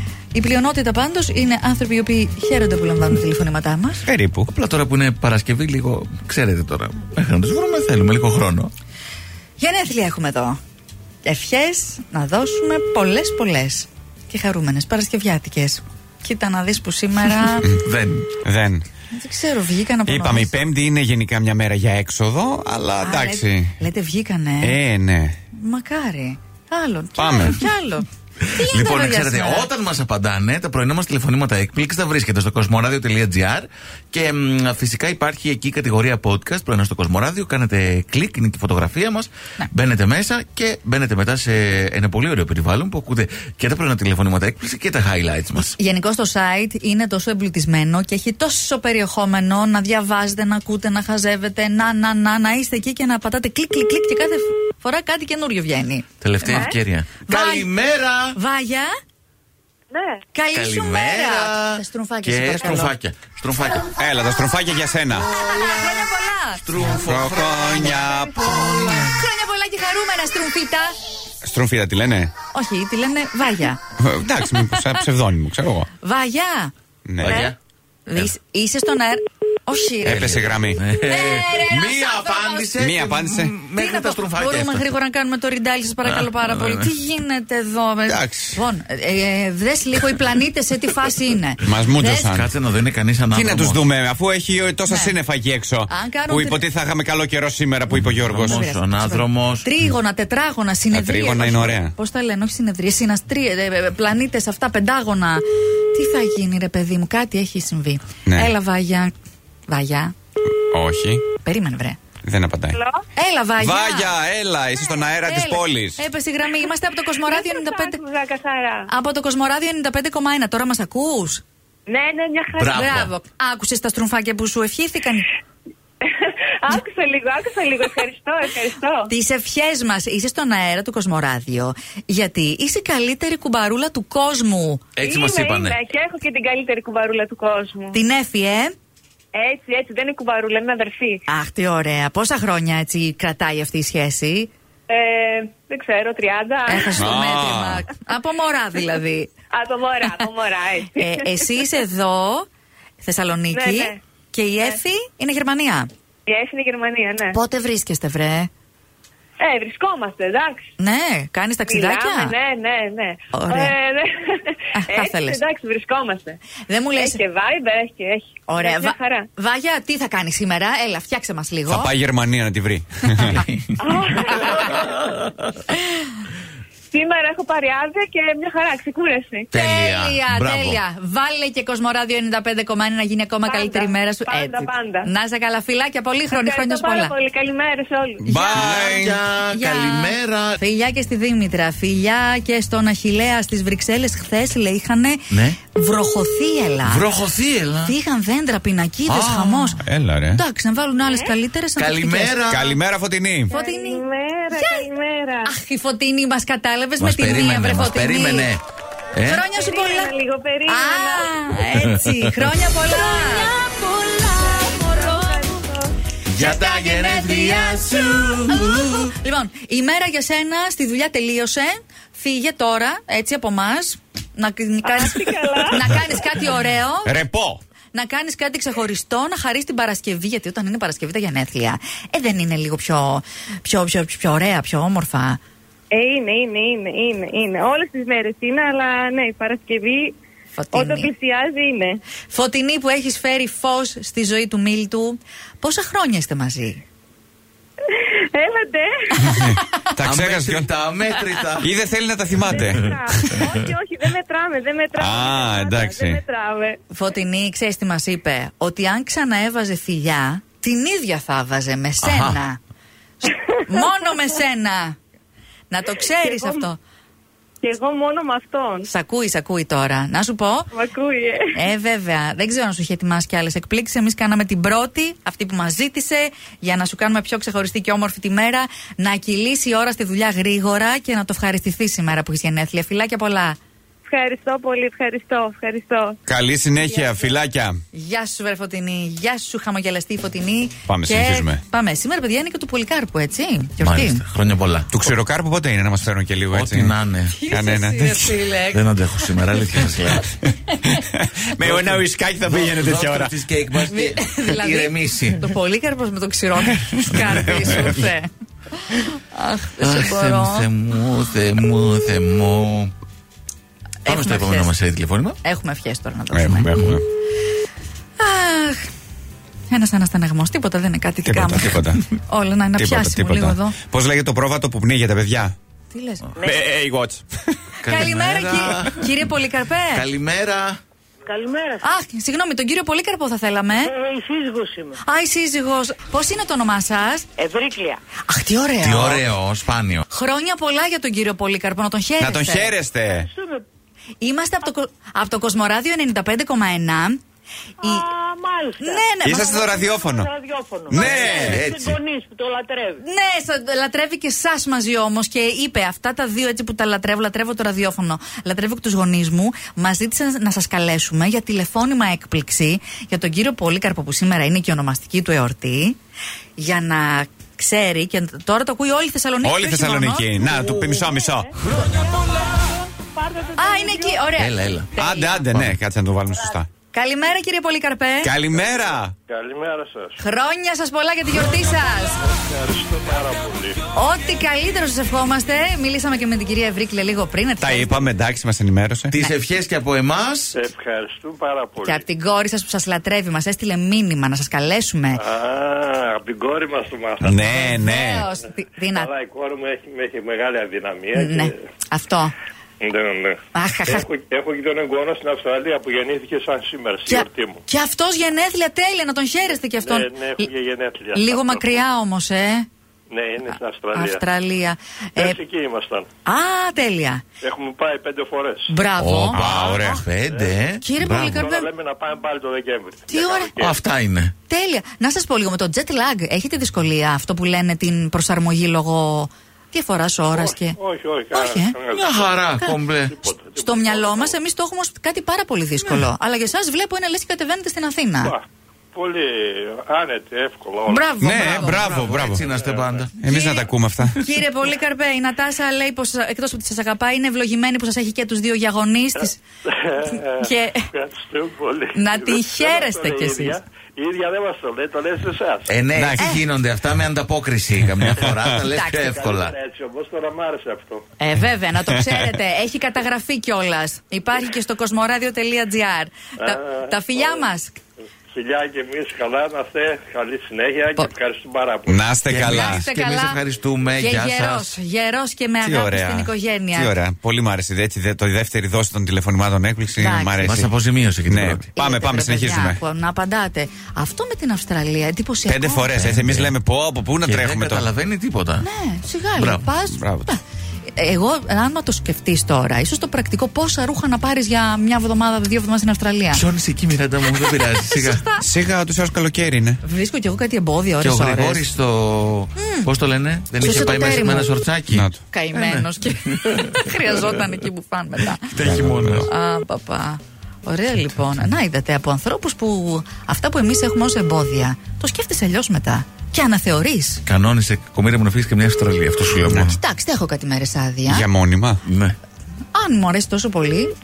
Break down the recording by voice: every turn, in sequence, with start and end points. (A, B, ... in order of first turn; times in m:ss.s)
0:00.3-0:04.1 A
0:04.1-0:04.5 B
0:04.4-0:08.7 C
0:09.6-0:10.6 A
0:11.2-0:17.8 A
0:17.8-0:18.3 C
0:18.4-0:18.8 B
0:19.1-0:20.6 A
0:20.1-0:23.8 B
0:23.0-0:24.8 A
0:24.6-0:25.4 B
0:25.5-0:29.7 A
0:27.2-0:27.6 B
0:28.4-0:45.8 C
0:45.6-0:56.7 A
0:56.2-0:58.4 C
0:56.5-0:56.7 D
0:57.3-0:57.7 A
0:58.3-0:58.9 A
0:59.9-1:00.2 D
1:00.3-1:02.9 A
1:00.5-1:03.9 C
1:03.9-1:05.3 B
1:05.3-1:06.8 A
1:05.4-1:05.8 C
1:06.6-1:09.2 C
1:06.9-1:08.5 B
1:08.4-1:10.9 A
1:11.4-1:12.3 B
1:12.5-1:13.8 A
1:14.0-1:15.9 B
1:14.4-1:15.0 A
1:16.0-1:16.7 A
1:17.0-1:17.5 B
1:17.2-1:17.6 C
1:18.1-1:22.7 A
1:20.0-1:20.8 B
1:20.1-1:24.9 C
1:22.8-1:23.5 B
1:23.8-1:32.2 A
1:26.0-1:26.9 C
1:28.1-1:28.6 B
1:31.6-1:32.4 B
1:32.0-1:33.8 C
1:33.3-1:38.6 B
1:34.9-1:35.1 A
1:35.9-1:36.6 A
1:38.0-1:39.7 C
1:38.4-1:49.1 A
1:40.9-1:41.9 B
1:49.7-1:50.1 A
1:50.7-1:51.2 B
1:51.4-1:52.0 A
1:52.2-1:52.8 B
1:52.7-1:53.0 D
1:53.2-1:54.2 A
1:53.6-1:56.0 B
1:55.2-1:58.0 A
1:57.3-1:58.9 D
1:58.9-2:01.4 A
2:01.9-2:02.9 D
2:02.6-2:03.1 C
2:02.7-2:05.3 A
2:06.0-2:09.1 D
2:09.1-2:14.8 A
2:15.0-2:15.8 C
2:15.0-2:18.0 D
2:17.9-2:18.7 A
2:19.3-2:21.2 D
2:21.3-2:24.5 A
2:24.9-2:27.1 D
2:26.7-2:29.3 A
2:27.0-2:27.8 B
2:29.5-2:31.5 D
2:31.0-2:32.5 A
2:33.0-2:35.9 A
2:33.5-2:34.0 D
2:36.3-2:37.4 D
2:37.3-2:38.5 A
2:39.4-2:40.6 D
2:40.8-2:42.3 A
2:41.7-2:46.4 D
2:43.3-2:43.7 A
2:44.7-2:45.4 A
2:46.7-2:47.2 A
2:46.9-2:49.3 D
2:48.5-2:51.9 A
2:51.7-2:53.4 B
2:53.8-2:54.8 D
2:54.5-2:54.7 A
2:56.9-2:59.5 D
2:59.5-3:00.8 C
2:59.5-3:07.1 A
3:03.4-3:05.1 D
3:06.3-3:08.2 D
3:08.2-3:09.2 B
3:08.2-3:17.1 A
3:08.3-3:10.6 C
3:15.3-3:15.6 C
3:16.8-3:17.9 C
3:17.8-3:22.4 A
3:19.0-3:19.8 C
3:19.8-3:20.4 B
3:21.8-3:22.8 C
3:22.5-3:23.5 B
3:23.5-3:24.8 A
3:23.5-3:25.5 D
3:25.4-3:28.5 A
3:27.0-3:28.6 C
3:29.1-3:29.4 C
3:29.2-3:30.1 A
3:29.5-3:31.3 D
3:30.7-3:33.6 A
3:33.1-3:35.9 D
3:34.6-3:35.5 A
3:36.2-3:39.1 C
3:36.4-3:47.1 A
3:44.8-3:46.0 D
3:47.0-3:47.6 B
3:47.9-3:55.4 A
3:55.9-4:00.2 D
4:00.5-4:01.1 A
4:00.7-4:02.0 D
4:02.3-4:06.8 A
4:07.9-4:09.5 D
4:09.3-4:10.7 B
4:10.0-4:11.7 C
4:11.6-4:12.9 B
4:12.4-4:16.8 D
4:14.9-4:16.2 B
4:16.9-4:22.6 A
4:22.0-4:22.4 C
4:23.2-4:25.0 A
4:25.7-4:26.8 A
4:26.1-4:26.7 D
4:27.6-4:28.9 D
4:28.9-4:30.7 A
4:30.7-4:31.5 D
4:31.5-4:43.6 A
4:44.0-4:46.2 D
4:46.3-4:47.7 B
4:46.9-4:47.3 A
4:47.9-4:54.2 A
4:50.9-4:51.6 B
4:53.8-4:54.9 C
4:54.9-4:56.9 B
4:56.5-4:57.4 C
4:57.3-4:59.3 A
4:57.5-4:58.4 B
4:58.7-5:00.3 C
5:01.0-5:03.3 B
5:01.6-5:05.4 C
5:03.9-5:10.7 A
5:07.1-5:07.6 B
5:09.8-5:12.9 C
5:14.0-5:14.7 A
5:14.0-5:15.4 C
5:15.4-5:16.7 A
5:16.3-5:17.0 B
5:18.2-5:18.8 A
5:19.7-5:23.8 A
5:21.3-5:22.0 B
5:22.8-5:25.5 B
5:25.9-5:26.4 A
5:26.4-5:27.5 B
5:27.8-5:29.2 C
5:27.8-5:30.0 A
5:29.9-5:30.8 C
5:31.2-5:31.8 E
5:31.8-5:34.0 A
5:33.8-5:35.0 E
5:35.0-5:37.3 A
5:37.4-5:38.0 E
5:38.2-5:39.2 A
5:38.8-5:40.0 C
5:40.1-5:42.8 A
5:42.2-5:43.3 B
5:43.1-5:43.6 E
5:44.2-5:47.2 A
5:47.8-5:48.1 A
5:47.8-5:53.0 E
5:48.8-5:49.9 A
5:49.2-5:50.3 B
5:50.9-5:51.7 B
5:50.9-5:51.6 A
5:50.9-5:52.0 C
5:53.0-6:06.0 A
6:06.6-6:10.6 A
6:09.4-6:11.5 B
6:13.3-6:14.0 E
6:13.5-6:15.4 A
6:14.3-6:14.9 C
6:15.0-6:16.7 B
6:16.9-6:18.3 A
6:18.2-6:19.2 B
6:19.3-6:20.2 F
6:20.2-6:22.2 A
6:22.3-6:23.8 F
6:23.9-6:28.1 A
6:27.6-6:29.1 B
6:29.1-6:30.6 C
6:30.5-6:32.0 F
6:31.8-6:35.2 A
6:35.2-6:37.8 F
6:37.2-6:38.3 B
6:37.4-6:39.1 A
6:38.9-6:41.6 F
6:41.1-6:42.3 A
6:42.8-6:47.6 F
6:43.5-6:44.0 A
6:47.1-6:50.5 A
6:49.7-6:51.8 F
6:51.1-6:52.7 A
6:53.1-6:54.2 F
6:53.9-6:55.4 A
6:55.2-6:56.1 F
6:56.2-6:57.2 A
6:57.4-6:58.7 F
6:58.7-6:59.5 A
6:59.0-7:01.4 C
6:59.3-7:00.0 B
6:59.5-7:00.7 F
7:00.8-7:01.7 A
7:01.4-7:03.8 F
7:03.1-7:03.5 A
7:03.6-7:04.3 C
7:04.5-7:10.8 A
7:10.3-7:14.3 F
7:11.3-7:11.8 A
7:11.9-7:13.1 C
7:13.6-7:18.4 A
7:18.9-7:23.1 F
7:20.9-7:21.9 A
7:21.2-7:22.4 B
7:21.6-7:23.1 C
7:23.2-7:24.2 B
7:23.2-7:29.4 A
7:29.7-7:35.7 F
7:30.0-7:30.9 A
7:31.9-7:33.6 A
7:35.7-7:39.5 C
7:35.9-7:36.3 B
7:38.2-7:41.0 F
7:38.6-7:39.2 A
7:41.2-7:47.8 A
7:46.4-7:47.4 F
7:48.3-7:52.0 F
7:51.9-7:52.8 B
7:52.3-7:54.7 C
7:52.4-7:53.4 A
7:54.0-7:56.9 A
7:55.6-8:00.7 B
8:00.0-8:00.5 A
8:00.4-8:01.7 C
8:01.2-8:02.8 B
8:01.7-8:05.9 A
8:05.5-8:07.8 B
8:05.9-8:06.5 C
8:07.2-8:08.7 C
8:08.6-8:10.4 A
8:09.4-8:09.7 C
8:09.9-8:10.3 B
8:10.9-8:16.4 A
8:16.3-8:18.2 C
8:17.2-8:18.4 A
8:18.4-8:19.8 B
8:19.8-8:21.6 A
8:21.0-8:27.4 C
8:22.6-8:22.9 A
8:23.6-8:24.5 A
8:24.9-8:25.2 B
8:25.3-8:28.5 A
8:28.5-8:29.3 C
8:28.6-8:29.2 B
8:29.3-8:37.2 A
8:37.2-8:39.8 C
8:39.6-8:41.2 A
8:41.0-8:41.8 B
8:41.8-8:42.2 C
8:42.7-8:43.9 A